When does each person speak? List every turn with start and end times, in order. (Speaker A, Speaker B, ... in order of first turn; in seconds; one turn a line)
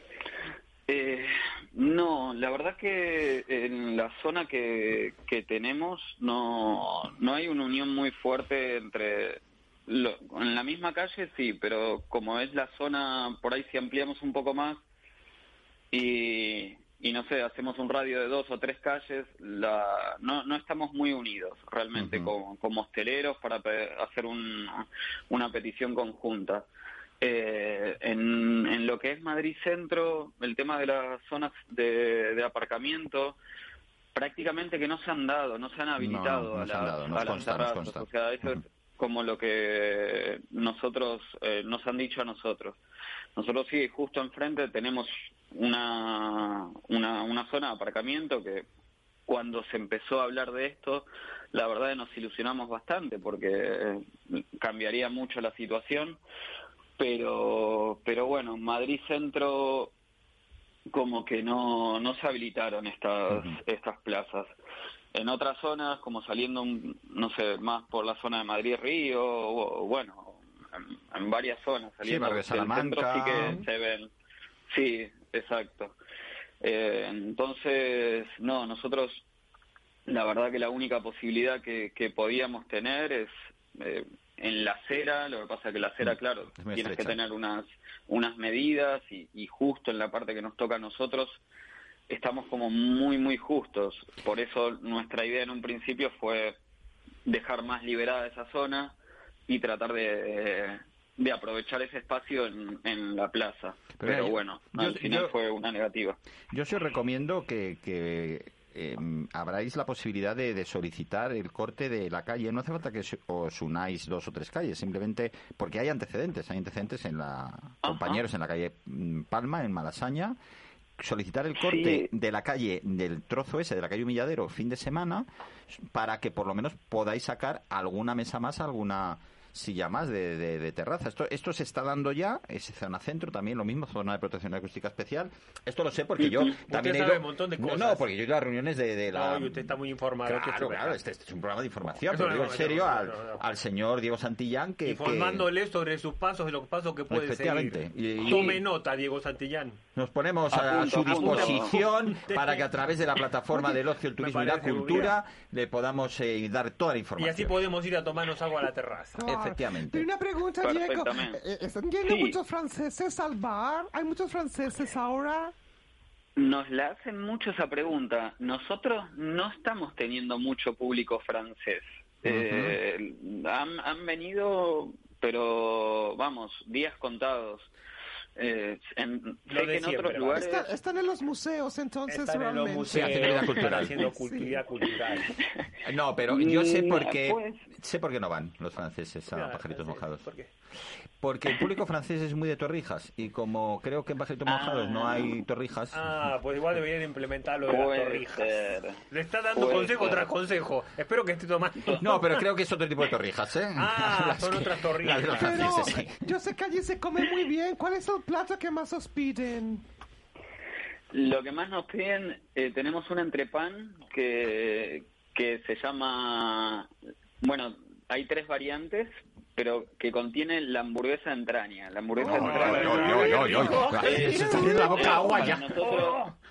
Speaker A: 0.9-14.8
Speaker A: 15.9-26.7
Speaker B: 21.9-22.3
Speaker A: 27.2-33.4
Speaker A: 34.1-42.8
Speaker B: 36.0-38.6
Speaker A: 43.4-48.7
Speaker A: 49.3-56.2
Speaker A: 57.0-59.9
Speaker A: 60.9-64.5
Speaker B: 63.3-63.6
Speaker A: 65.1-74.1
Speaker B: 72.0-73.6
Speaker A: 74.7-76.0
Speaker A: 76.6-79.2
Speaker A: 80.1-91.4
Speaker B: 86.0-87.2
Speaker A: 92.1-96.5
Speaker A: 97.3-99.0
Speaker A: 99.5-106.2
Speaker B: 104.0-105.3
Speaker B: 106.5-120.4
Speaker A: 117.8-118.2
Speaker B: 121.0-145.5
Speaker A: 121.6-122.1
Speaker C: 136.6-138.1
Speaker C: 139.1-141.0
Speaker C: 142.1-143.4
Speaker C: 144.8-149.8
Speaker B: 147.1-148.6
Speaker B: 150.0-157.6
Speaker A: 150.5-151.8
Speaker C: 150.7-152.7
Speaker C: 154.2-155.2
Speaker C: 157.2-159.2
Speaker D: 159.2-165.5
Speaker B: 159.2-160.1
Speaker A: 160.6-161.4
Speaker A: 162.0-162.4
Speaker A: 166.4-177.7
Speaker B: 172.3-172.8
Speaker A: 178.4-180.7
Speaker C: 179.5-180.4
Speaker D: 180.4-184.6
Speaker C: 182.1-185.4
Speaker B: 182.9-184.0
Speaker A: 185.3-185.7
Speaker B: 185.8-190.2
Speaker A: 186.3-187.6
Speaker C: 189.3-190.5
Speaker B: 191.2-196.1
Speaker A: 194.5-195.4
Speaker C: 195.9-198.6
Speaker A: 197.7-199.0
Speaker C: 199.1-202.4
Speaker A: 199.5-200.3
Speaker B: 202.0-206.2
Speaker C: 203.8-205.8
Speaker D: 205.4-209.8
Speaker A: 211.1-216.9
Speaker A: 217.4-226.3
Speaker B: 222.2-226.0
Speaker C: 222.2-226.3
Speaker D: 223.0-225.1